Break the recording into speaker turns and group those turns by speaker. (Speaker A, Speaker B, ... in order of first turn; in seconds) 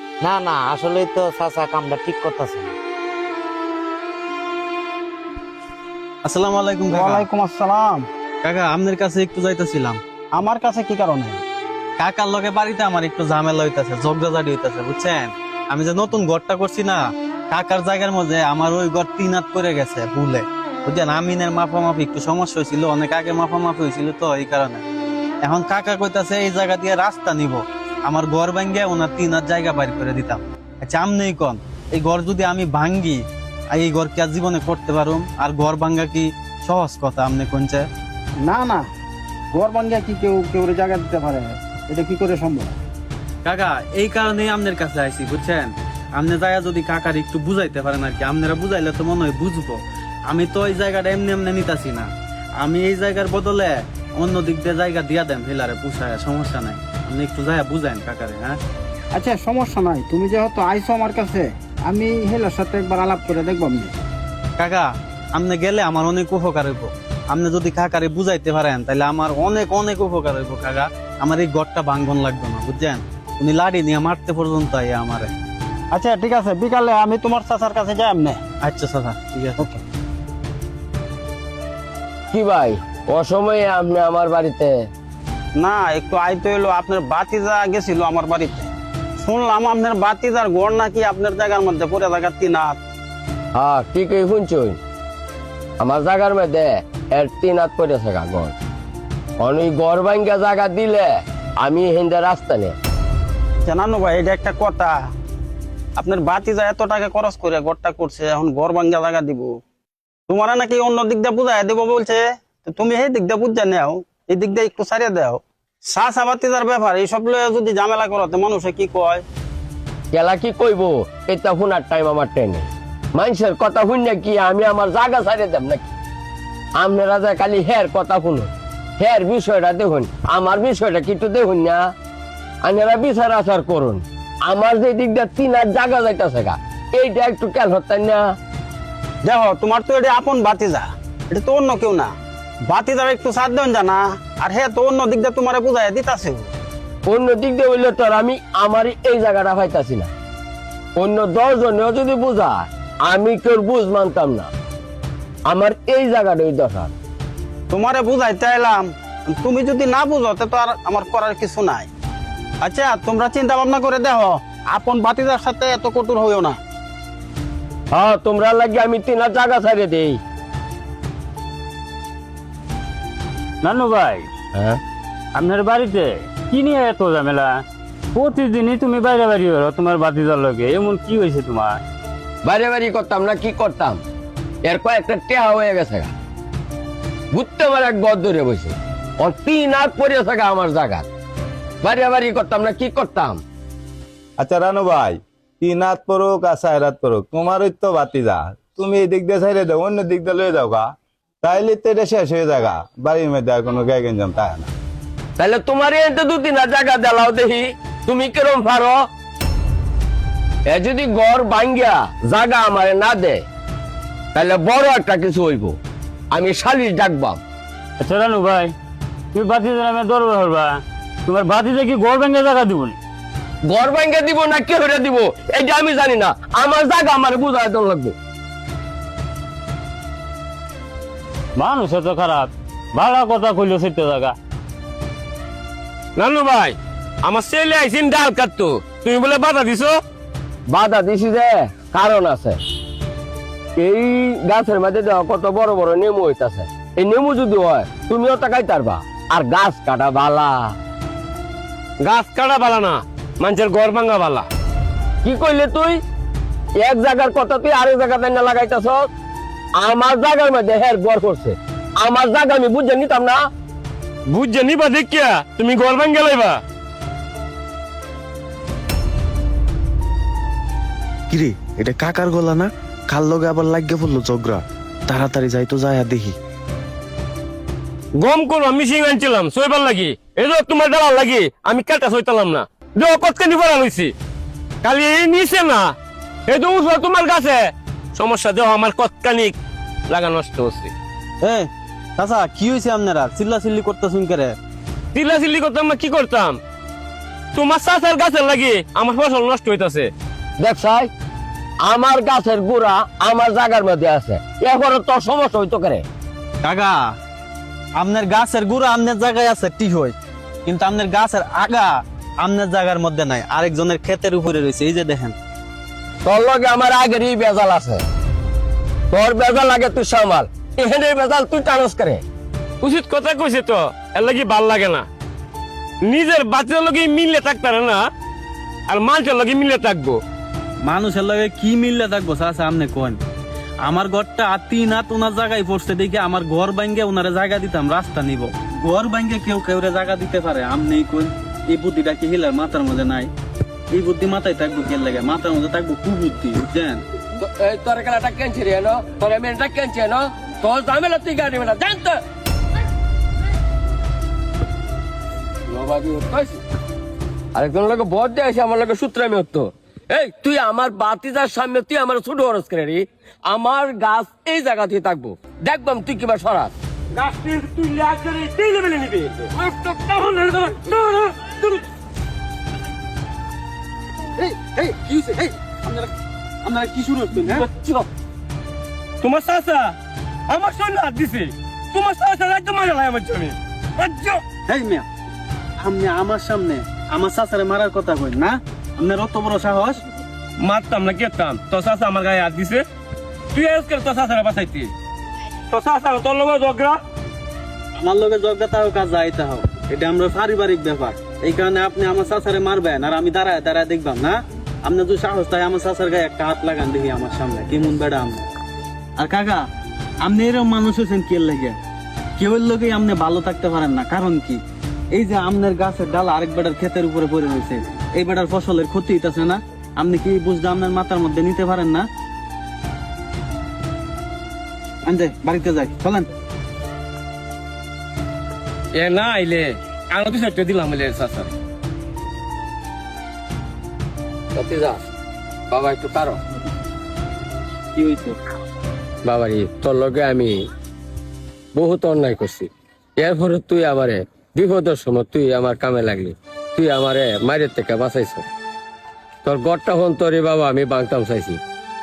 Speaker A: 0.2-2.7
Speaker B: 6.2-7.2, 8.4-10.0, 12.0-24.8, 25.4-37.9, 43.4-52.1, 52.6-58.6, 64.6-75.3, 78.6-79.7, 291.4-291.7, 292.2-294.5, 306.6-307.0, 308.0-315.4, 330.8-333.2, 333.8-343.3, 343.9-347.0, 374.4-376.1, 376.6-377.6, 384.7-385.1, 385.8-390.0, 398.0-408.4, 409.2-409.6, 410.2-411.8, 412.4-422.1, 425.1-426.3, 437.9-438.3
Speaker C: 6.9-8.1, 10.3-11.4, 38.4-38.8, 39.5-42.8, 59.1-63.9, 75.9-78.4, 85.6-92.8, 103.6-105.0, 106.0-109.5, 110.3-119.2, 139.2-142.1, 142.7-146.5, 157.7-161.9, 162.6-166.6
Speaker D: 82.3-84.9, 93.5-94.8, 95.8-98.5, 99.4-102.8, 120.1-125.9, 126.8-131.9, 132.6-138.2, 147.1-150.1, 150.9-154.5, 155.5-156.9, 167.9-170.2, 174.5-174.8, 182.4-184.0, 184.6-186.1, 187.3-191.1, 191.8-193.4, 205.4-209.0, 210.7-213.4, 214.3-215.8, 216.3-217.4, 223.7-228.1, 240.7-242.6, 243.8-250.8, 255.2-256.0, 256.8-259.1, 259.8-263.4, 300.6-301.1, 301.9-306.1, 316.2-318.0, 319.1-322.2, 347.4-352.2, 355.7-356.6, 357.5-366.7, 434.5-435.0, 435.7-436.4, 439.2-440.6, 441.7-448.4, 449.4-451.6
Speaker E: 173.6-174.3, 175.3-181.8, 218.0-218.7, 219.3-222.9, 231.6-234.3
Speaker F: 194.4-200.8, 201.4-204.7
Speaker G: 236.2-240.0, 252.0-254.5, 264.3-266.6, 278.2-284.1, 284.8-285.9, 286.5-289.5, 290.1-290.9, 295.1-296.6, 297.5-300.1, 322.8-325.1, 326.0-328.0, 328.9-330.2, 367.1-371.8, 379.2-379.9, 380.5-384.4, 390.6-392.8, 393.5-394.9, 395.7-397.0, 428.9-431.5
Speaker H: 271.3-276.4